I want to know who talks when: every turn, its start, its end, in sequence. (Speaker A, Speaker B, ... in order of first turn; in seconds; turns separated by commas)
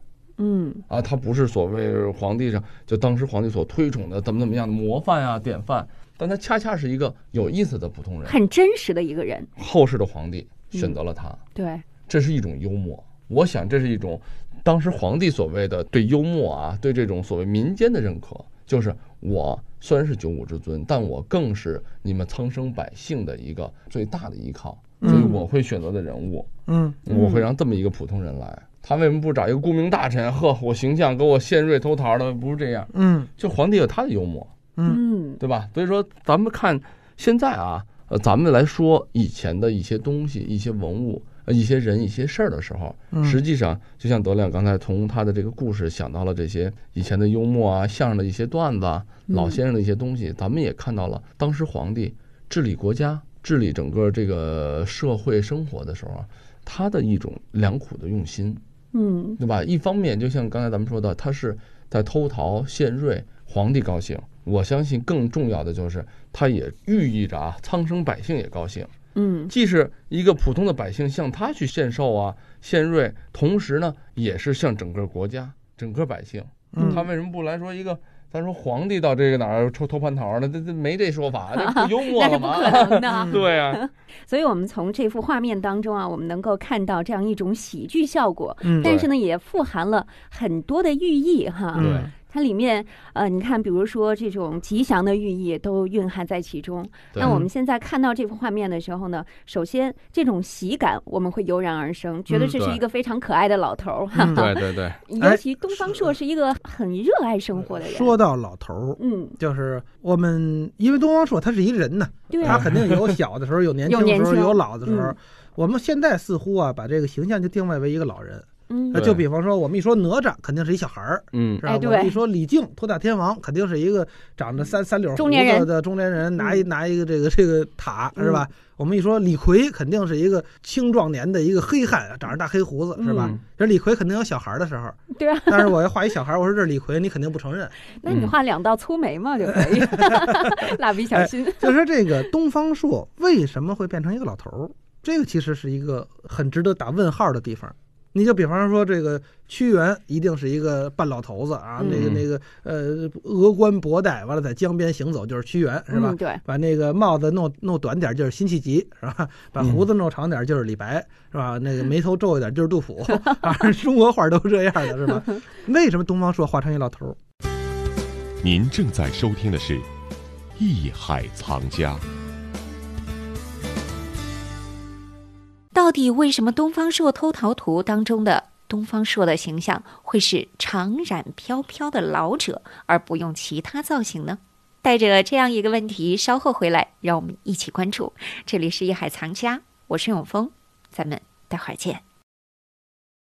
Speaker A: 0.4-0.8, Speaker B: 0.9-8.4, Speaker A: 8.2-9.5, Speaker B: 9.6-11.4, Speaker A: 11.6-11.8, Speaker B: 12.1-26.5, Speaker C: 25.0-25.3, Speaker A: 25.1-25.4, Speaker C: 26.7-27.0, Speaker B: 27.1-34.5, Speaker A: 27.1-27.4, Speaker C: 32.9-33.3, Speaker A: 34.9-35.4, Speaker B: 35.4-58.6, Speaker C: 43.1-43.4, Speaker A: 49.3-49.6, Speaker A: 58.9-59.4, Speaker B: 59.4-68.9, Speaker A: 69.2-69.5, Speaker B: 69.5-83.8, Speaker C: 76.7-77.0, Speaker A: 76.8-77.0, Speaker A: 81.5-108.2, Speaker C: 88.6-88.9, Speaker B: 88.8-89.1, Speaker C: 91.7-92.1, Speaker B: 91.8-92.1, Speaker B: 97.1-97.4, Speaker C: 97.2-97.5, Speaker C: 102.3-102.5, Speaker B: 102.5-102.8, Speaker B: 104.2-105.0, Speaker C: 104.2-104.5, Speaker C: 105.2-106.1, Speaker C: 107.5-134.9, Speaker A: 109.0-109.4, Speaker A: 112.3-112.7, Speaker B: 112.4-113.1, Speaker A: 113.9-115.2, Speaker A: 118.7-119.0, Speaker B: 118.9-119.2, Speaker B: 121.3-121.6, Speaker A: 121.6-122.2, Speaker A: 125.2-125.7, Speaker A: 126.4-126.6, Speaker A: 128.2-128.4, Speaker A: 132.9-133.4, Speaker A: 135.2-135.8, Speaker C: 135.5-137.7, Speaker A: 138.0-141.8, Speaker B: 138.1-138.3, Speaker C: 139.8-140.5, Speaker C: 141.1-167.2, Speaker A: 151.8-152.1, Speaker B: 151.9-152.2, Speaker A: 155.9-156.4, Speaker B: 159.6-159.8, Speaker D: 168.4-169.9, Speaker D: 170.6-172.0, Speaker E: 175.7-192.0